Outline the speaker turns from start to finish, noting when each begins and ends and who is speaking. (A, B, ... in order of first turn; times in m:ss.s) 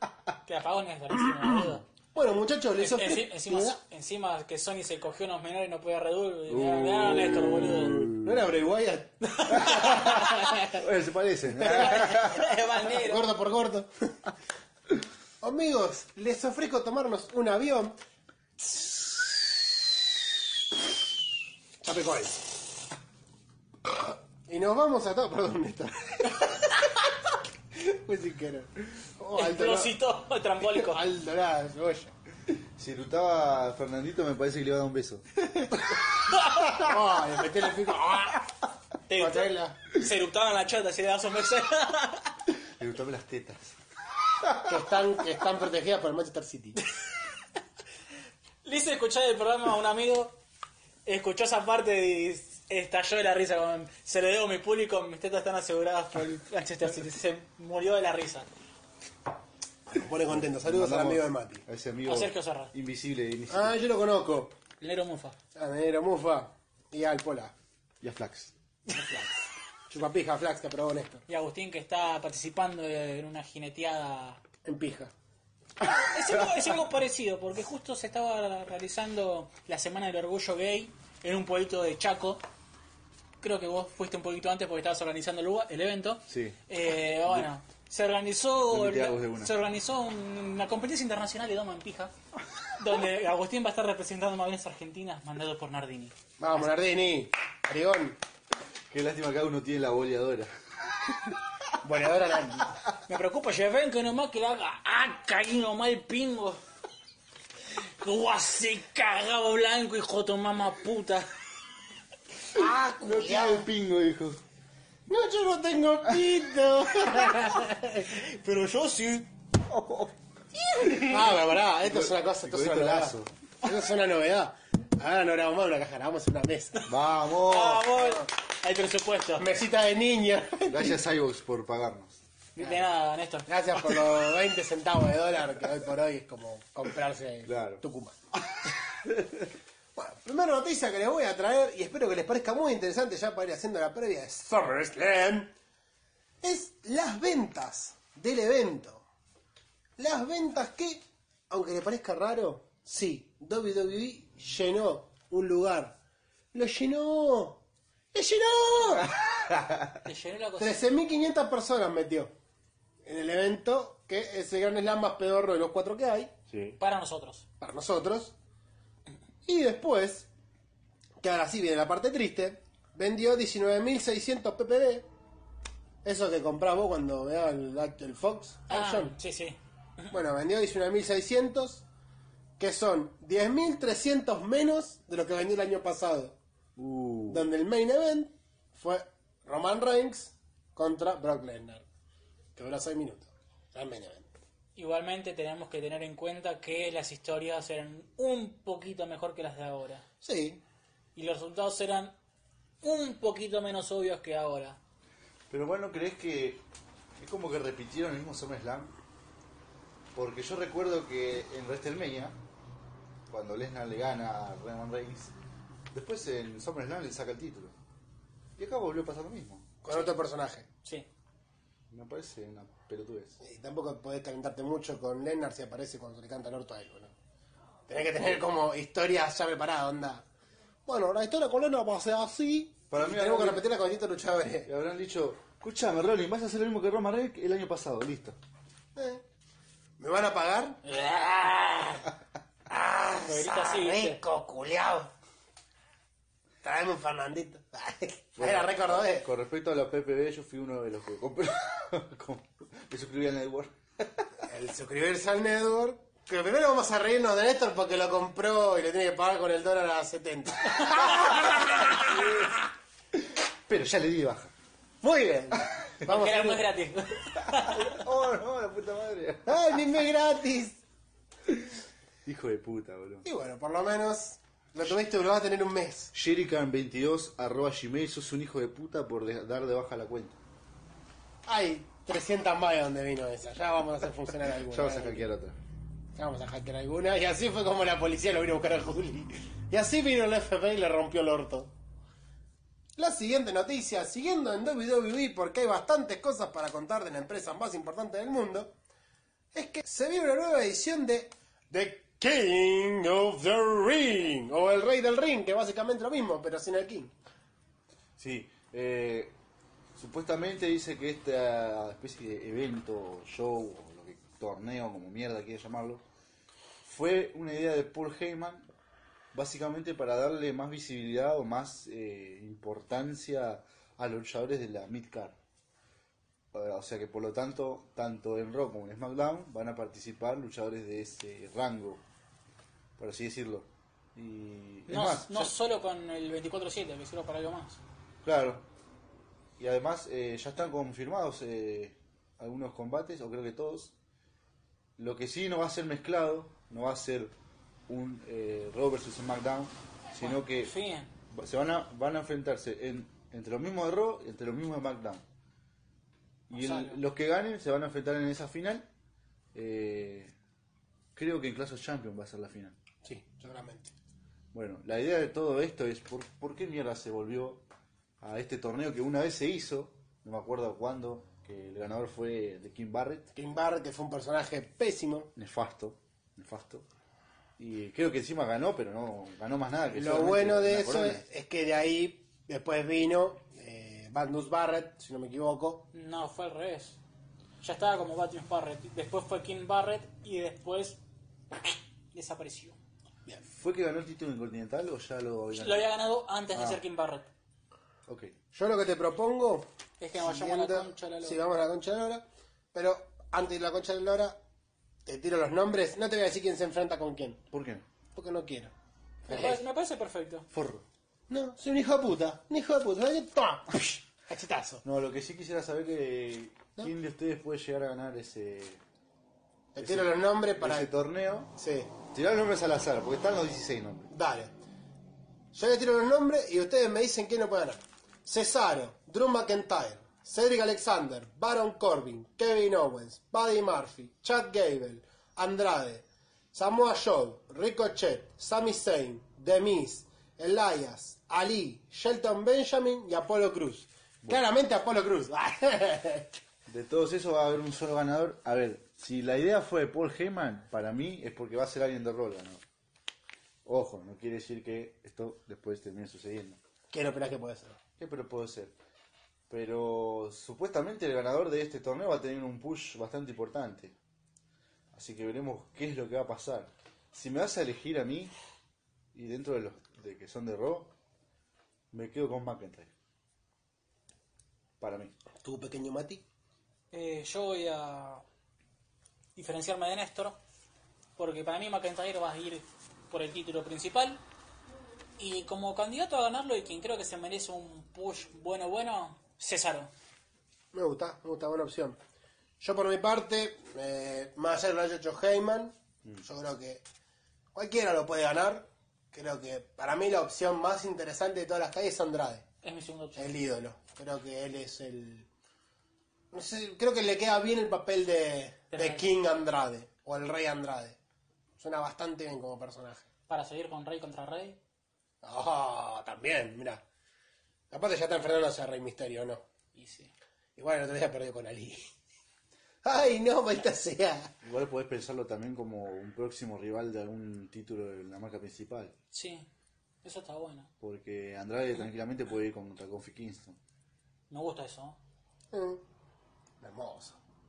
0:00.5-0:01.8 A
0:01.2-0:03.8 B
0:02.8-0:08.1 A
0:06.5-0:08.4 C
0:08.1-0:10.8 B
0:09.3-0:10.6 A
0:09.6-0:12.5 C
0:11.6-0:12.3 B
0:11.6-0:13.3 A
0:12.8-0:14.2 B
0:15.4-0:18.0 B
0:21.8-0:22.6 B
0:24.5-0:27.1 B
0:27.7-0:30.0 B
0:29.4-0:31.0 A
0:30.7-0:32.1 B
0:32.8-0:35.2 C
0:35.5-0:35.8 B
0:36.7-0:38.5 B
0:39.1-0:42.3 A
0:39.2-0:39.8 B
0:42.8-0:43.8 C
0:44.4-0:44.7 C
0:44.6-0:46.8 B
0:48.6-0:50.4 A
0:51.0-0:58.5 A
0:59.9-1:01.6 B
1:00.3-1:03.8 C
1:02.1-1:02.7 A
1:03.5-1:04.6 B
1:04.8-1:05.4 A
1:05.6-1:07.5 B
1:08.0-1:08.5 C
1:08.9-1:11.2 B
1:11.3-1:14.4 A
1:14.6-1:15.1 B
1:15.8-1:22.4 A
1:23.4-1:32.1 A
1:26.3-1:26.6 C
1:28.7-1:29.5 C
1:32.8-1:36.7 A
1:36.4-1:38.2 B
1:38.9-1:40.5 C
1:41.8-1:42.8 B
1:43.1-1:46.6 A
1:48.0-1:51.3 A
1:52.5-1:53.7 B
1:52.6-1:54.4 C
1:55.1-1:58.2 B
1:59.7-2:00.1 C
2:00.8-2:06.9 B
2:01.8-2:03.3 C
2:06.9-2:07.9 C
2:07.4-2:09.5 A
2:09.4-2:11.0 B
2:10.6-2:12.2 C
2:12.6-2:14.0 A
2:13.5-2:18.2 B
2:17.4-2:17.8 C
2:18.4-2:19.5 C
2:20.0-2:25.5 B
2:26.4-2:29.0 B
2:30.0-2:36.0 B
2:36.5-2:37.6 B
2:38.1-2:39.1 B
2:39.5-2:39.9 C
2:40.0-2:40.8 A
2:40.6-2:42.3 B
2:43.0-2:46.3 B
2:46.5-2:46.8 C
2:46.8-2:47.4 A
2:47.6-2:48.4 B
2:49.4-2:50.3 B
2:51.2-2:55.1 B
2:56.0-2:59.1 B
2:58.7-3:00.1 A
3:00.1-3:01.8 B
3:02.6-3:06.4 B
3:06.8-3:07.5 C
3:07.3-3:11.8 B
3:12.6-3:14.3 B
3:14.8-3:20.0 A
3:20.2-3:20.6 B
3:21.2-3:22.2 A
3:22.8-3:24.8 A
3:25.5-3:26.6 C
3:27.2-3:28.9 C
3:30.1-3:32.4 C
3:33.3-3:35.3 C
3:35.9-3:37.7 C
3:38.6-3:39.8 C
3:39.8-3:40.7 B
3:41.9-3:43.4 C
3:43.4-3:47.1 B
3:47.9-3:50.2 B
3:50.9-3:54.7 B
3:52.9-3:53.6 C
3:54.7-3:58.4 C
3:59.0-3:59.2 B
4:00.0-4:02.1 B
4:02.7-4:05.1 B
4:03.2-4:04.2 A
4:06.6-4:09.3 B
4:08.4-4:14.2 C
4:14.5-4:22.5 B
4:21.5-4:22.5 C
4:23.7-4:24.5 C
4:25.0-4:26.6 B
4:26.0-4:28.0 A
4:27.5-4:29.7 C
4:29.5-4:30.8 B
4:32.2-4:33.2 C
4:33.2-4:36.1 B
4:36.1-4:40.4 C
4:41.5-4:45.3 B
4:44.7-4:45.6 C
4:46.2-4:51.7 B
4:53.0-4:58.7 B
4:59.5-5:07.1 B
5:08.2-5:09.4 C
5:10.0-5:16.0 C
5:16.8-5:18.7 C
5:19.3-5:25.4 C
5:26.5-5:32.0 C
5:33.0-5:35.5 C
5:34.9-5:37.8 A
5:38.2-5:38.6 C
5:39.6-5:43.9 C
5:45.0-5:47.3 C
5:47.9-5:50.7 C
5:50.2-5:51.1 A
5:51.3-5:55.2 C
5:56.5-5:58.9 C
5:56.5-5:57.0 A
5:59.6-6:00.3 C
6:01.2-6:02.8 C
6:03.0-6:03.9 B
6:04.5-6:07.6 C
6:08.2-6:13.3 C
6:13.3-6:15.3 B
6:15.4-6:16.9 C
6:17.6-6:21.2 C
6:19.9-6:25.9 B
6:25.9-6:27.0 A
6:27.6-6:31.0 A
6:31.5-6:32.8 A
6:33.5-6:35.9 C
6:35.6-6:37.3 A
6:36.5-6:36.8 C
6:38.1-6:38.3 C
6:38.5-6:44.4 B
6:40.0-6:41.4 A
6:45.1-6:47.4 B
6:47.5-6:47.9 C
6:48.1-6:48.7 B
6:49.3-6:50.5 A
6:49.3-6:49.6 B
6:50.5-6:50.8 C
6:51.3-6:54.8 B
6:54.8-6:58.8 C
6:59.8-7:00.9 B
6:59.8-7:01.5 C
7:01.6-7:01.9 B
7:02.1-7:04.1 C
7:04.1-7:04.5 B
7:05.5-7:26.4 B
7:26.7-7:32.6 C
7:33.7-7:36.6 C
7:36.9-7:37.8 B
7:38.0-7:38.7 C
7:39.5-7:44.0 C
7:44.9-7:48.3 C
7:49.1-7:50.9 C
7:51.9-7:52.9 C
7:54.8-7:55.1 C
7:55.4-7:56.2 B
7:56.9-7:58.2 A
7:59.4-8:00.4 A
8:01.2-8:04.2 A
8:05.2-8:09.9 A
8:10.7-8:12.0 B
8:12.6-8:16.8 B
8:17.6-8:22.5 B
8:22.6-8:23.4 A
8:23.2-8:25.3 B
8:26.3-8:31.0 B
8:28.7-8:29.1 A
8:31.6-8:33.1 B
8:33.3-8:34.6 A
8:35.2-8:36.8 B
8:37.7-8:39.4 B
8:39.8-8:40.1 A
8:40.6-8:41.9 B
8:42.8-8:44.3 B
8:44.4-8:48.9 C
8:49.1-8:49.5 A
8:50.0-8:50.7 A
8:50.8-8:53.6 C
8:54.3-8:55.0 A
8:55.5-8:55.8 B
8:56.6-8:57.2 B